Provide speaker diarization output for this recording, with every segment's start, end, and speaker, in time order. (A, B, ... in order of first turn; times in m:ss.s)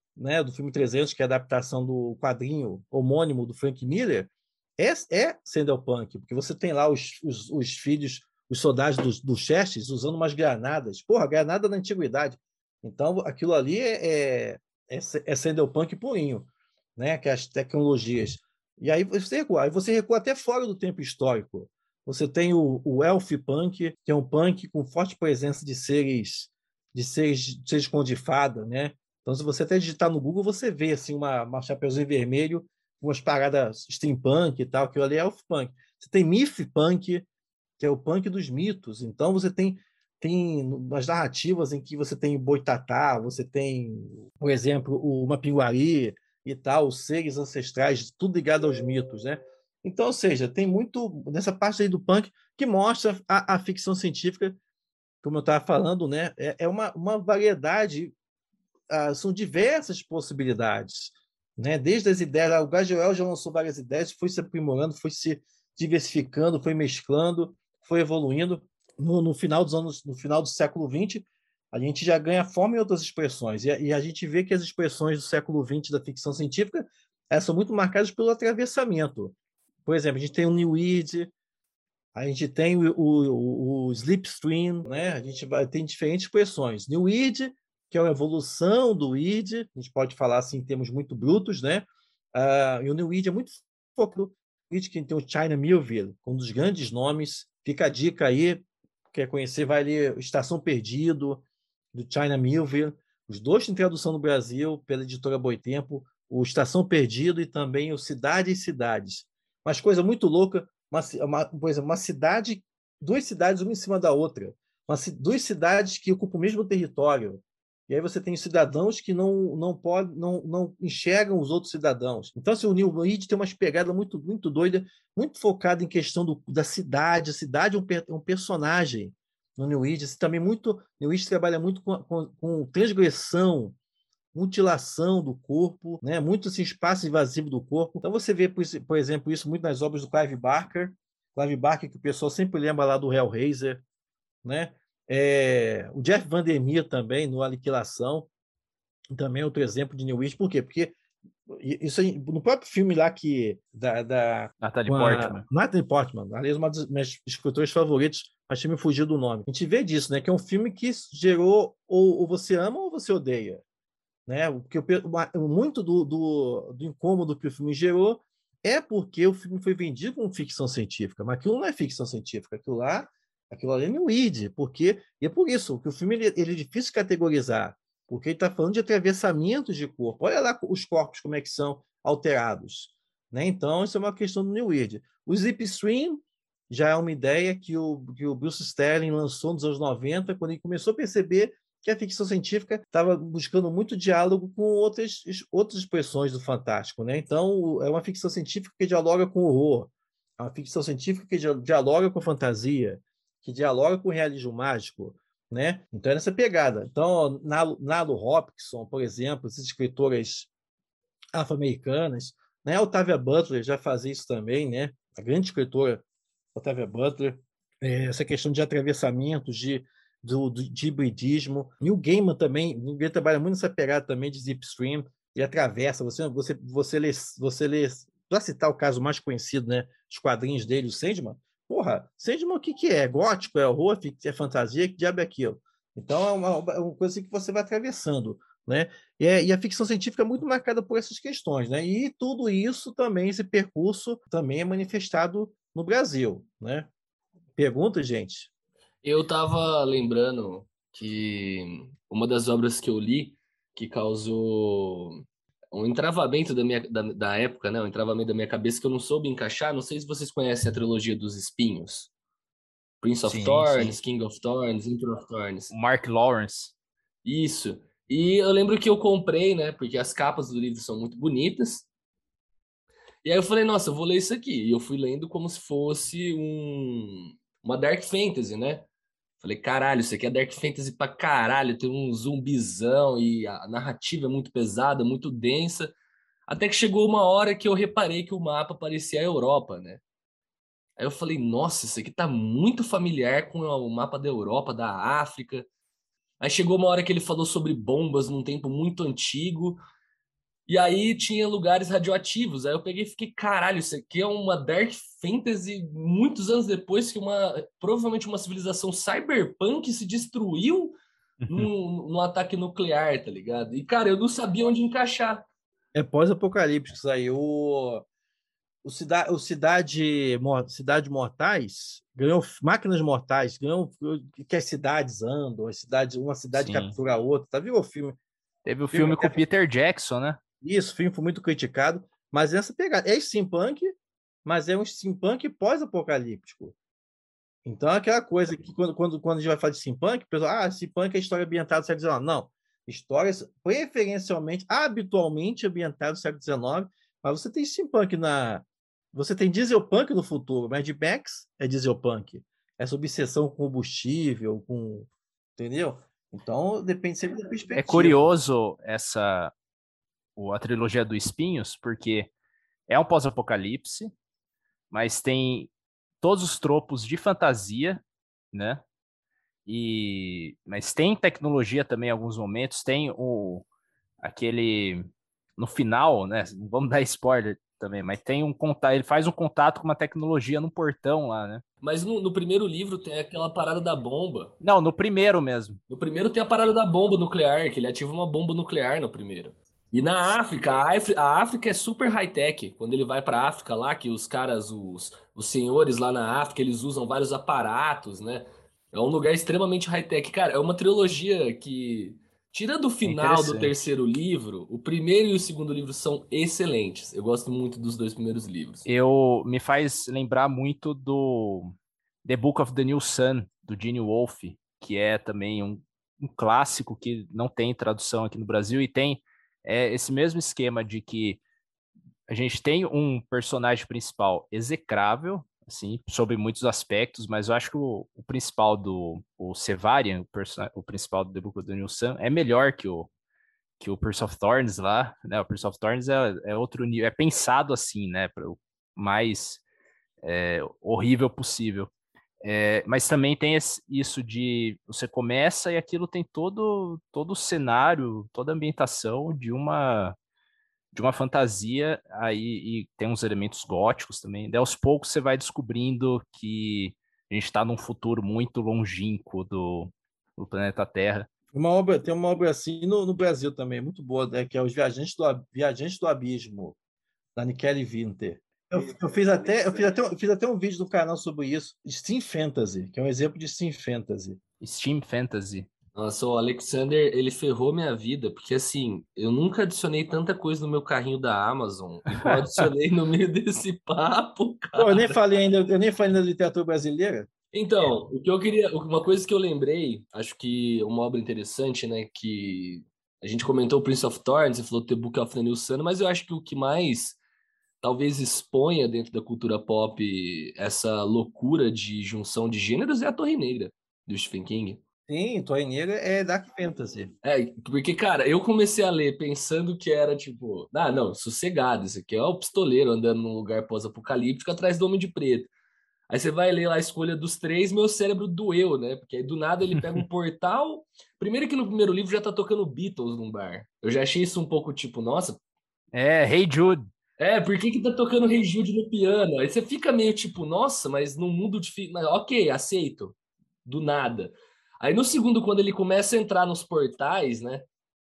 0:00.2-0:37.2 A
0:37.8-0:54.6 A
0:55.2-0:58.1 A
0:58.9-1:21.3 A
1:22.1-2:13.8 A
2:14.3-2:23.8 A
2:24.4-2:28.3 A
2:29.1-2:31.0 A
2:31.5-2:43.6 A
2:34.6-2:35.4 B
2:44.3-3:30.5 A
3:31.3-3:36.0 A
3:36.5-4:06.9 A
4:07.6-4:08.5 A
4:09.0-4:22.1 C
4:23.0-4:25.7 C
4:23.2-4:24.0 B
4:25.7-4:26.7 B
4:27.2-4:31.8 C
4:33.2-4:38.9 C
4:39.4-4:45.9 C
4:46.5-4:50.0 C
4:51.0-4:55.6 C
4:56.4-4:59.8 C
5:00.7-5:11.0 C
5:11.5-5:15.4 C
5:15.9-5:18.0 A
5:18.8-5:28.2 A
5:26.5-5:27.0 B
5:28.6-5:30.4 B
5:28.9-5:29.4 A
5:30.6-5:33.9 A
5:34.4-5:36.8 A
5:37.6-5:58.3 A
5:57.7-5:59.5 B
6:00.4-6:02.3 B
6:02.9-6:04.1 B
6:04.9-6:05.7 B
6:06.2-6:08.8 B
6:09.7-6:13.6 B
6:14.2-6:15.0 B
6:15.6-6:21.6 B
6:21.8-6:24.6 C
6:24.6-6:25.8 B
6:25.9-6:48.8 C
6:43.0-6:43.7 B
6:48.8-7:01.4 B
7:02.3-7:13.1 B
7:13.8-7:19.6 B
7:20.2-7:21.9 B
7:22.4-7:30.2 B
7:30.9-7:41.3 B
7:41.5-7:46.8 A
7:47.4-7:54.4 A
7:54.6-7:55.7 B
7:55.9-8:05.2 C
8:04.8-8:07.3 A
8:07.5-8:17.2 C
8:17.8-8:24.8 C
8:25.1-8:27.1 A
8:27.2-8:35.5 C
8:36.1-8:45.4 C
8:45.9-8:46.9 B
8:47.2-8:53.1 C
8:53.6-8:57.6 C